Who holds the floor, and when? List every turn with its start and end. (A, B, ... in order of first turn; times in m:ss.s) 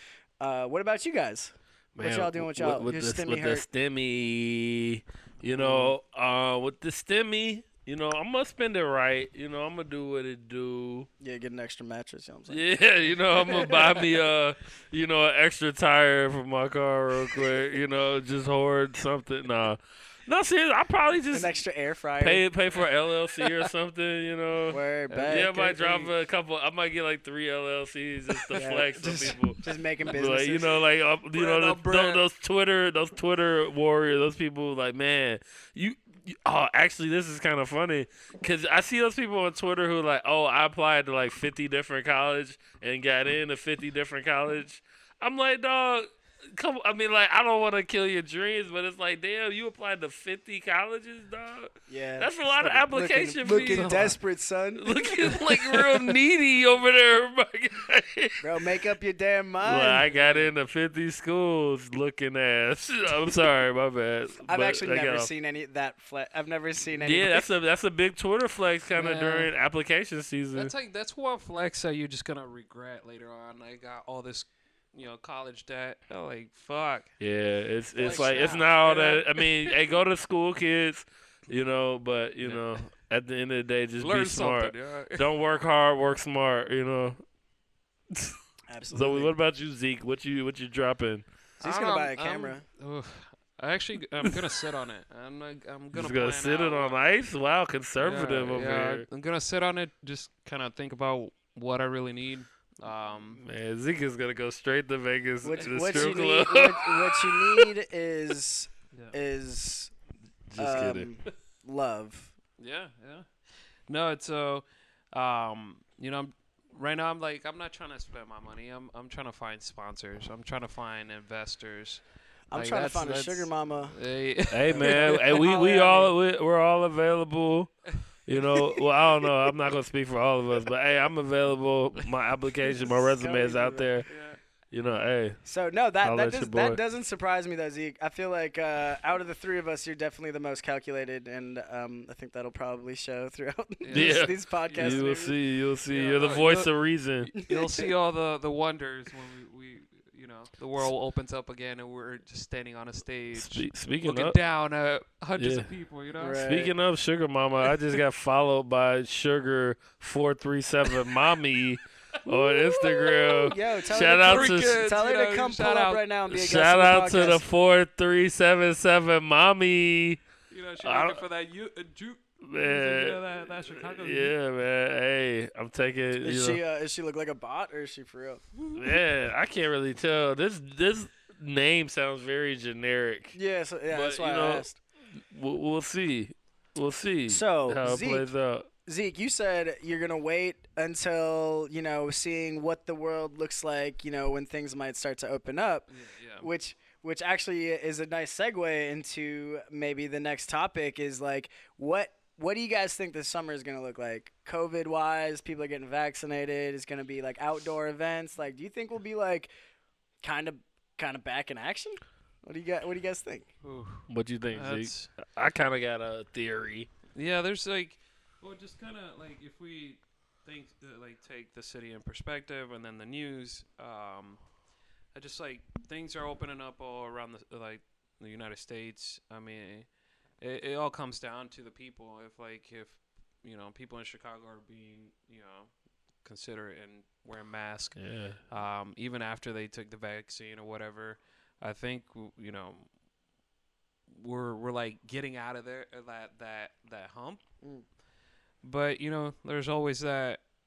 0:00.4-0:03.7 A
0:02.0-0:11.1 B
0:05.6-0:05.9 A
0:11.2-0:12.6 A
0:12.5-0:21.6 B
0:13.3-0:14.0 A
0:21.3-0:22.4 A
0:22.2-0:54.2 B
0:24.7-0:26.1 A
0:25.1-0:25.4 C
0:28.6-0:30.8 A
0:31.3-0:32.2 C
0:51.9-0:55.3 A
0:53.4-0:54.1 C
0:54.8-0:58.4 B
0:58.4-1:00.1 A
0:59.6-1:05.3 B
1:00.1-1:00.5 C
1:04.4-1:07.5 A
1:07.0-1:10.7 B
1:09.0-1:09.5 C
1:10.6-1:17.2 C
1:17.2-1:27.2 B
1:18.0-1:18.7 A
1:18.0-1:19.8 C
1:22.4-1:22.8 C
1:24.0-1:25.3 C
1:28.1-1:28.4 B
1:28.7-1:29.3 A
1:28.9-1:31.3 B
1:31.6-1:32.6 A
1:31.6-1:37.0 C
1:35.9-1:39.0 B
1:38.0-1:43.4 C
1:43.4-1:47.6 B
1:45.4-1:49.9 A
1:45.6-1:46.3 C
1:50.5-1:51.1 B
1:50.6-1:52.3 A
1:52.6-2:06.0 C
2:02.5-2:04.0 A
2:04.5-2:14.1 B
2:04.7-2:06.1 A
2:12.7-2:14.1 A
2:14.1-2:14.4 C
2:14.7-2:15.4 B
2:15.4-2:25.4 A
2:16.0-2:16.8 B
2:23.8-2:25.2 C
2:23.9-2:27.3 B
2:25.9-2:36.5 C
2:27.5-2:27.9 A
2:33.4-2:34.4 B
2:35.4-2:35.7 B
2:36.2-2:36.7 A
2:36.4-2:44.8 B
2:42.3-2:46.0 C
2:43.5-2:47.4 A
2:46.3-2:50.2 B
2:50.5-2:54.4 C
2:50.8-2:51.2 B
2:52.4-2:56.6 B
2:56.2-2:58.4 A
2:58.5-2:59.0 C
2:58.8-3:03.4 B
3:03.3-3:04.8 A
3:03.9-3:04.7 B
3:05.3-3:08.7 B
3:07.3-3:08.3 A
3:08.9-3:29.5 A
3:15.9-3:16.5 C
3:30.2-3:33.5 A
3:33.6-3:35.2 C
3:34.1-3:36.9 B
3:37.1-3:44.5 C
3:45.1-4:02.9 C
3:58.0-3:58.4 B
4:04.1-4:07.4 C
4:08.6-4:10.4 C